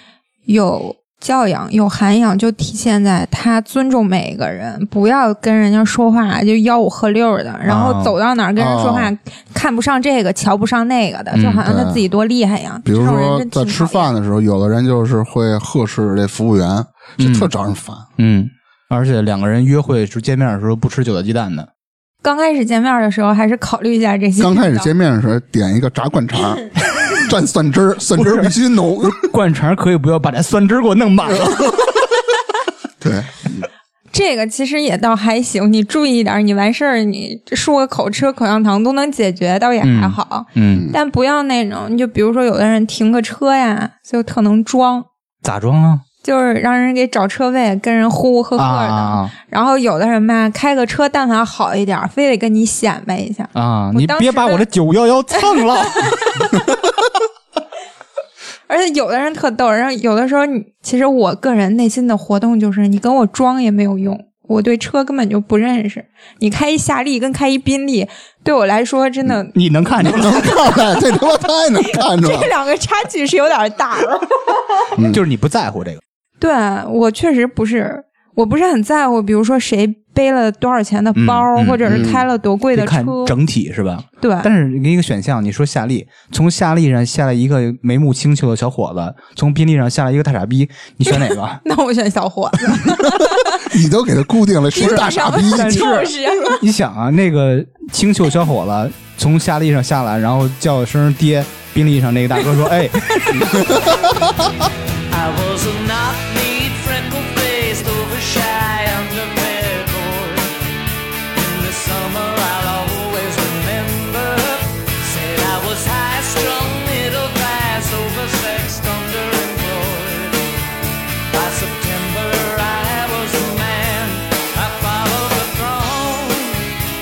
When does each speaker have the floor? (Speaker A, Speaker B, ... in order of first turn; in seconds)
Speaker A: 0.5-14.1, 22.2-24.9, 34.1-45.0, 46.2-54.6, 55.3-56.4, 58.7-69.5, 70.2-70.8, 71.8-74.2, 76.4-83.3, 84.2-84.5, 91.0-93.7, 94.7-96.6
Speaker B: 7.7-8.2, 11.3-11.6, 17.2-17.5, 18.2-21.7, 28.1-31.9, 39.8-40.9, 45.4-46.0, 48.6-49.3, 53.5-56.3, 69.5-70.6, 75.0-76.0, 81.1-82.0, 82.7-91.6, 95.5-103.8
Speaker C: 8.6-9.1, 11.6-12.0, 12.8-18.1, 24.4-29.3, 31.3-31.6, 33.0-33.7, 70.0-72.5, 74.9-75.2, 81.8-82.2, 93.5-96.0, 103.5-104.3
Speaker D: 105.1-110.6, 111.3-120.5, 121.3-126.7